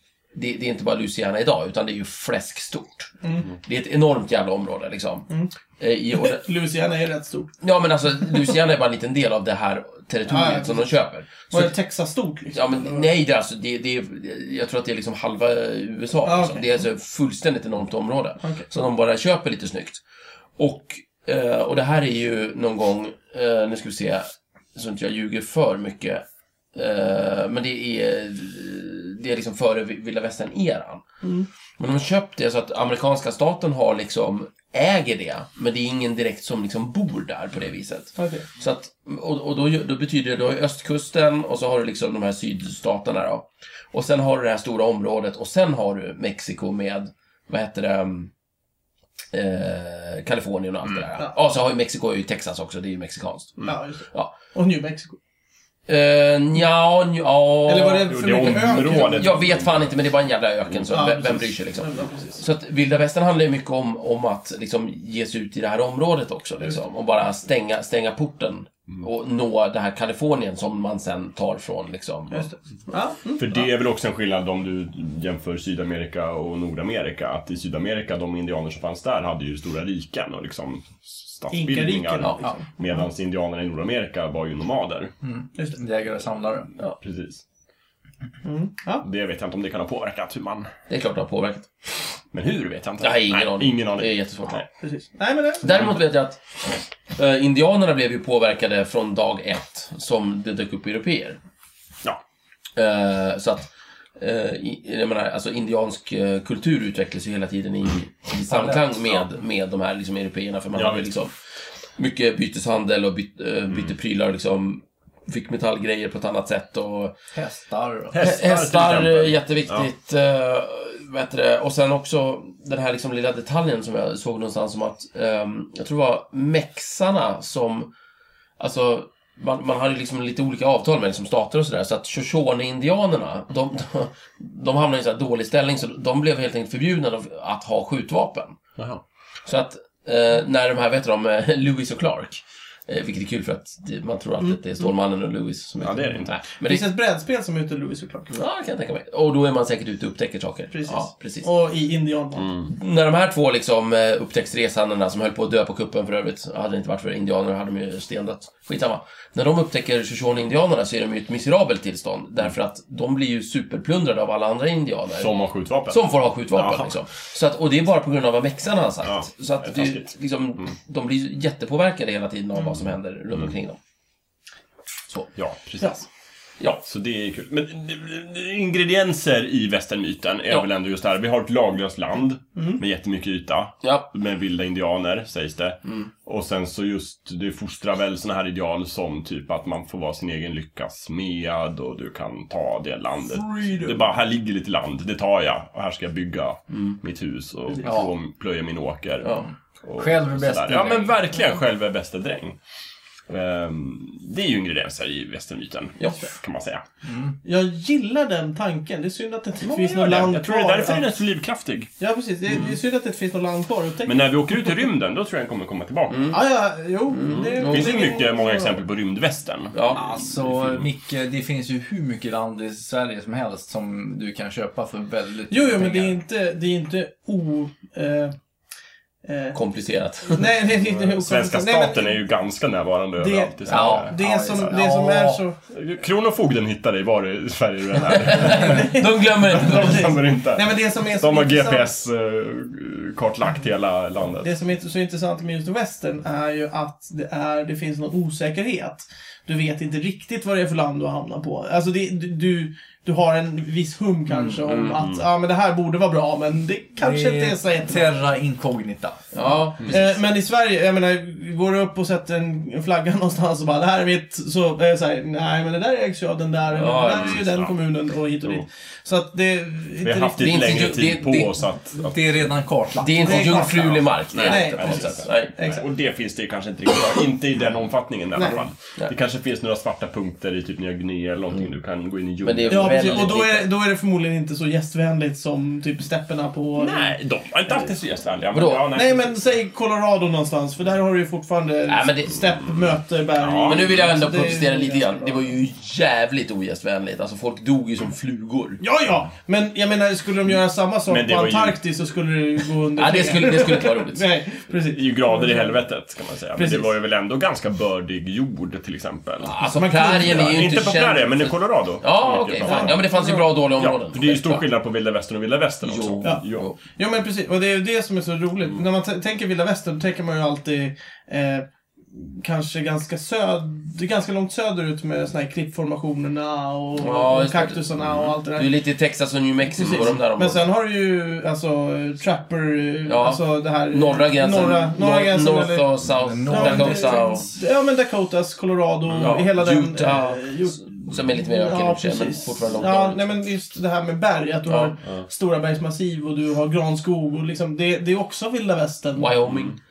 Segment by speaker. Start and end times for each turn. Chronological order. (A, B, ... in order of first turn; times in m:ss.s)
0:00.3-0:06.4 A
0:03.2-0:03.5 B
0:06.2-0:07.6 B
0:07.6-0:11.7 A
0:10.3-0:10.9 B
0:11.5-0:13.1 B
0:12.5-0:20.0 A
0:16.2-0:16.8 B
0:18.4-0:18.6 B
0:20.6-0:26.2 A
0:26.7-0:31.0 A
0:31.2-0:31.5 B
0:31.8-0:48.3 A
0:38.2-0:38.4 B
0:49.3-0:54.3 A
0:53.6-0:55.2 B
0:55.9-1:12.5 A
0:57.7-0:59.4 B
0:58.1-1:00.0 C
1:00.9-1:02.4 B
1:12.3-1:13.6 B
1:13.4-1:25.1 C
1:21.5-1:22.7 B
1:25.2-1:26.7 D
1:27.0-1:27.4 C
1:28.4-1:29.0 B
1:29.0-1:30.7 C
1:30.9-1:31.7 A
1:32.3-1:34.6 C
1:33.0-1:34.6 A
1:34.8-1:35.9 B
1:35.6-1:36.4 A
1:37.1-1:41.4 A
1:42.8-1:51.3 A
1:48.5-1:49.0 D
1:50.7-1:51.1 C
1:52.0-1:57.1 A
1:57.3-1:58.2 D
1:58.1-1:59.9 C
1:58.2-2:07.9 A
2:08.6-2:18.6 A
2:18.8-2:19.0 C
2:19.4-2:26.8 A
2:25.8-2:26.4 C
2:26.6-2:28.3 B
2:28.3-2:31.5 A
2:30.7-2:32.5 B
2:32.7-2:45.3 A
2:45.2-2:46.0 C
2:45.9-2:53.8 A
2:46.5-2:46.9 C
2:49.0-2:50.7 C
2:55.4-2:56.0 C
2:56.8-3:22.6 C
3:02.6-3:02.8 B
3:03.8-3:04.1 A
3:05.8-3:06.1 A
3:13.2-3:14.0 B
3:16.7-3:17.0 A
3:17.8-3:18.1 D
3:19.2-3:19.5 A
3:20.0-3:21.2 D
3:23.3-3:26.8 C
3:26.0-3:26.3 A
3:27.0-3:27.3 D
3:27.4-3:31.1 B
3:29.6-3:31.9 C
3:32.0-3:34.2 B
3:34.0-3:36.3 C
3:36.1-3:36.4 A
3:36.3-3:38.8 B
3:37.1-3:38.0 A
3:37.3-3:40.9 C
3:39.7-3:40.0 A
3:39.9-3:46.2 D
3:45.5-3:48.3 B
3:49.2-3:49.6 B
3:49.5-3:50.5 A
3:50.3-3:52.2 B
3:50.7-3:54.7 C
3:53.2-3:55.6 B
3:53.7-3:54.1 A
3:53.8-3:55.4 D
3:55.7-4:04.5 C
3:58.2-4:00.1 A
3:58.4-4:01.9 B
4:04.4-4:18.1 B
4:14.3-4:14.6 D
4:14.6-4:15.0 A
4:15.0-4:15.2 C
4:17.0-4:19.2 D
4:19.3-4:20.1 A
4:19.8-4:30.7 B
4:26.7-4:27.4 A
4:27.1-4:27.8 C
4:30.0-4:32.5 C
4:30.4-4:31.5 A
4:32.0-4:33.8 D
4:33.0-4:35.5 A
4:33.2-4:35.8 B
4:34.3-4:43.4 C
4:38.4-4:38.6 B
4:42.4-4:43.7 A
4:42.7-4:47.2 B
4:46.7-4:49.4 C
4:48.5-4:48.8 A
4:48.9-4:55.4 B
4:51.9-4:52.5 A
4:53.4-4:54.0 C
4:53.6-4:58.8 A
4:58.8-5:05.8 B
5:01.1-5:01.8 C
5:03.0-5:04.2 A
5:04.9-5:16.7 C
5:06.5-5:06.9 B
5:09.4-5:14.6 A
5:09.6-5:10.7 B
5:12.6-5:13.4 B
5:15.8-5:16.8 A
5:16.2-5:28.7 B
5:27.0-5:30.6 A
5:29.7-5:35.9 B
5:29.8-5:30.1 C
5:33.0-5:37.5 A
5:36.2-5:37.5 D
5:36.5-5:49.4 B
5:39.1-5:39.3 C
5:39.2-5:43.2 A
5:44.7-5:44.9 A
5:49.2-5:49.8 A
5:49.4-5:49.7 C